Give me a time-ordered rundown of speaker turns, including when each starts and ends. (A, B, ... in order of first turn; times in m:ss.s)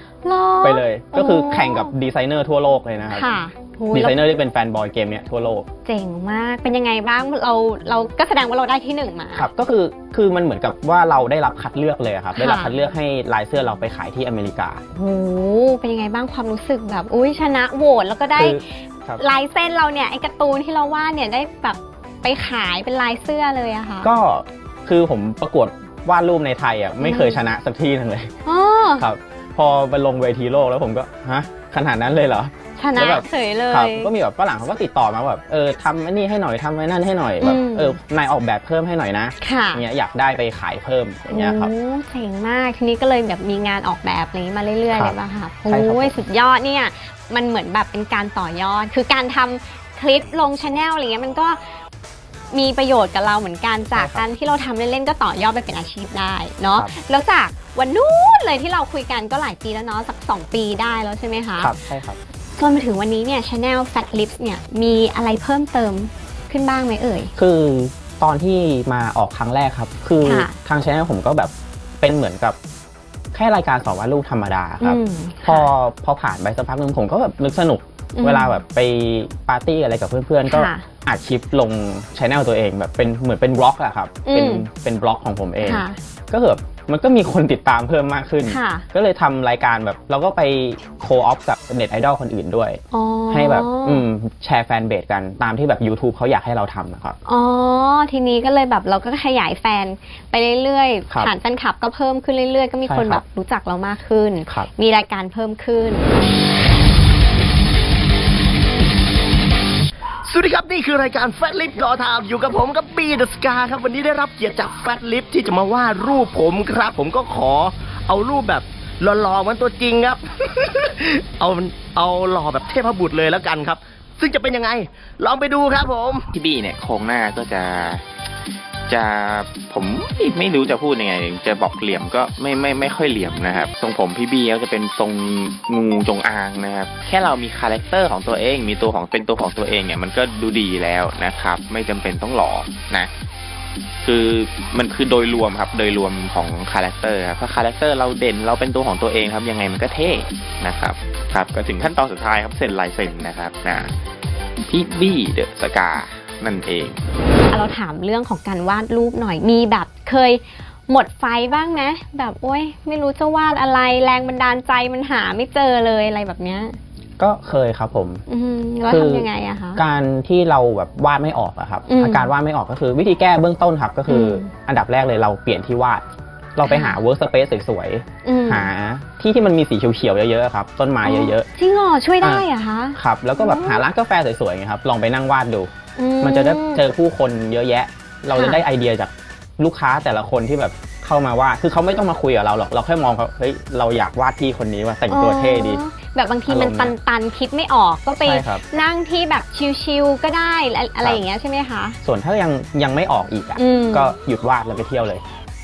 0:00.2-0:01.9 A
0:00.6-0:03.3 B
0:03.1-0:04.2 A
0:03.9-0:05.7 B
0:05.8-0:09.5 A
0:09.3-0:14.8 B
0:12.3-0:12.8 A
0:14.9-0:18.6 A
0:18.3-0:19.2 B
0:19.2-0:24.1 A
0:24.0-0:28.3 B
0:27.0-0:27.4 A
0:28.4-0:29.0 A
0:29.0-0:41.7 B
0:32.8-0:34.1 A
0:37.4-0:38.0 A
0:39.4-0:39.8 A
0:41.3-0:51.6 A
0:44.9-0:46.2 B
0:52.5-1:01.7 A
0:53.9-0:54.3 B
1:01.6-1:02.2 B
1:02.6-1:07.3 A
1:07.4-1:12.6 B
1:10.2-1:10.5 A
1:13.3-1:37.2 B
1:14.8-1:15.7 A
1:18.1-1:18.5 A
1:20.5-1:20.8 A
1:24.2-1:24.6 A
1:25.6-1:26.0 A
1:28.4-1:28.8 A
1:32.9-1:34.0 A
1:37.3-1:46.1 A
1:42.9-1:43.2 B
1:50.2-2:06.2 C
2:06.3-2:08.0 D
2:08.9-2:23.1 D
2:24.1-2:33.9 D
2:34.7-2:37.0 D
2:37.5-2:46.8 A
2:47.2-2:48.2 B
2:48.3-2:49.8 A
2:48.9-2:56.0 B
2:51.9-2:52.3 A
2:54.1-2:54.5 A
2:56.6-3:01.5 B
2:56.6-2:57.0 A
2:58.2-2:58.7 A
3:01.0-3:03.8 A
3:02.2-3:15.8 B
3:06.0-3:06.8 A
3:08.3-3:08.6 A
3:15.1-3:22.0 A
3:16.5-3:16.9 B
3:18.2-3:18.6 B
3:22.0-3:25.2 B
3:23.6-3:24.1 A